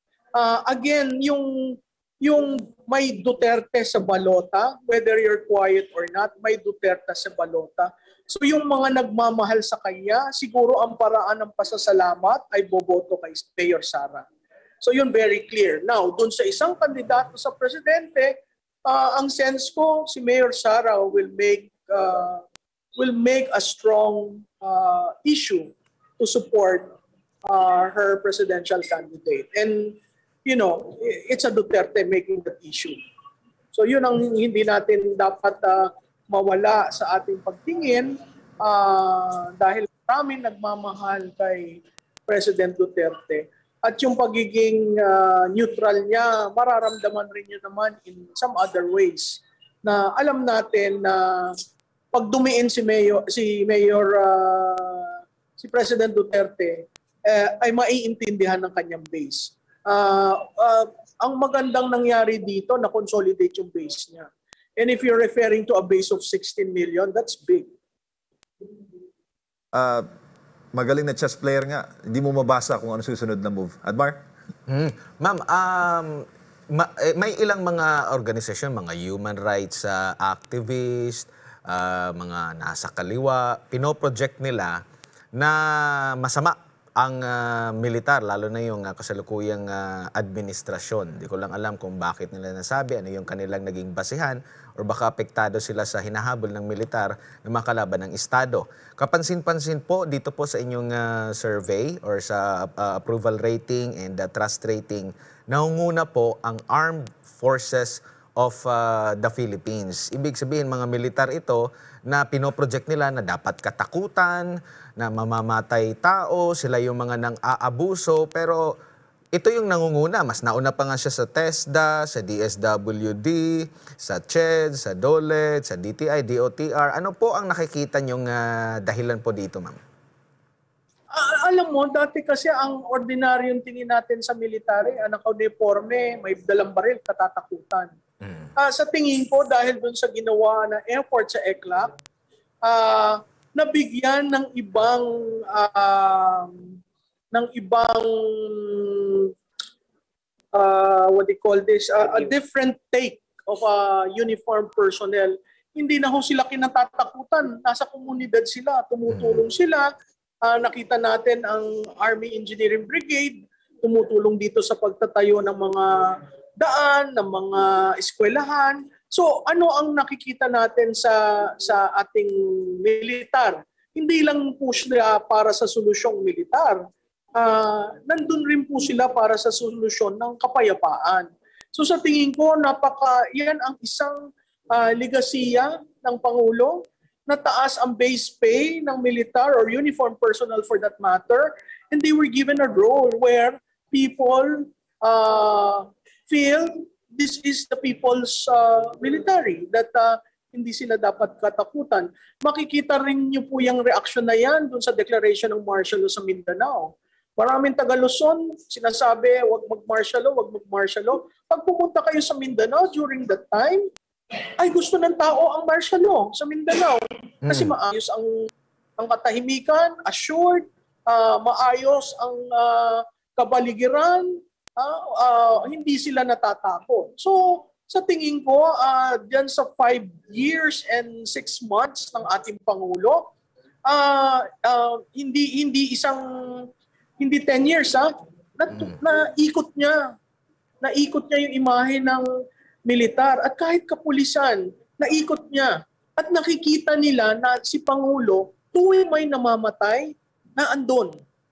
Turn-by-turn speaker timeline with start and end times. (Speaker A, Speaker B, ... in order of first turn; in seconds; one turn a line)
Speaker A: 0.3-1.5
Speaker A: 2.2-14.2
Speaker A: 14.8-18.3
Speaker A: 18.9-22.4
Speaker A: 23.0-26.9
Speaker A: 27.4-33.0
Speaker A: 33.7-51.5
Speaker A: 52.1-67.7
Speaker B: 69.7-70.0
Speaker B: 70.7-74.2
Speaker C: 74.7-76.2
Speaker C: 76.7-84.8
Speaker C: 85.3-118.7
Speaker C: 119.3-129.8
Speaker A: 131.1-137.9
Speaker C: 138.2-138.5
Speaker A: 138.6-141.9
Speaker A: 142.6-146.7
Speaker A: 147.3-149.3
Speaker A: 150.5-159.9
Speaker C: 159.1-159.4
Speaker A: 160.4-176.8
Speaker A: 177.4-184.2
Speaker A: 184.7-213.8
Speaker A: 214.6-218.3
Speaker C: 217.4-217.7
Speaker A: 219.0-233.2
Speaker A: 233.9-236.2
Speaker A: 237.2-240.0
Speaker A: 240.8-242.2
Speaker A: 242.8-251.2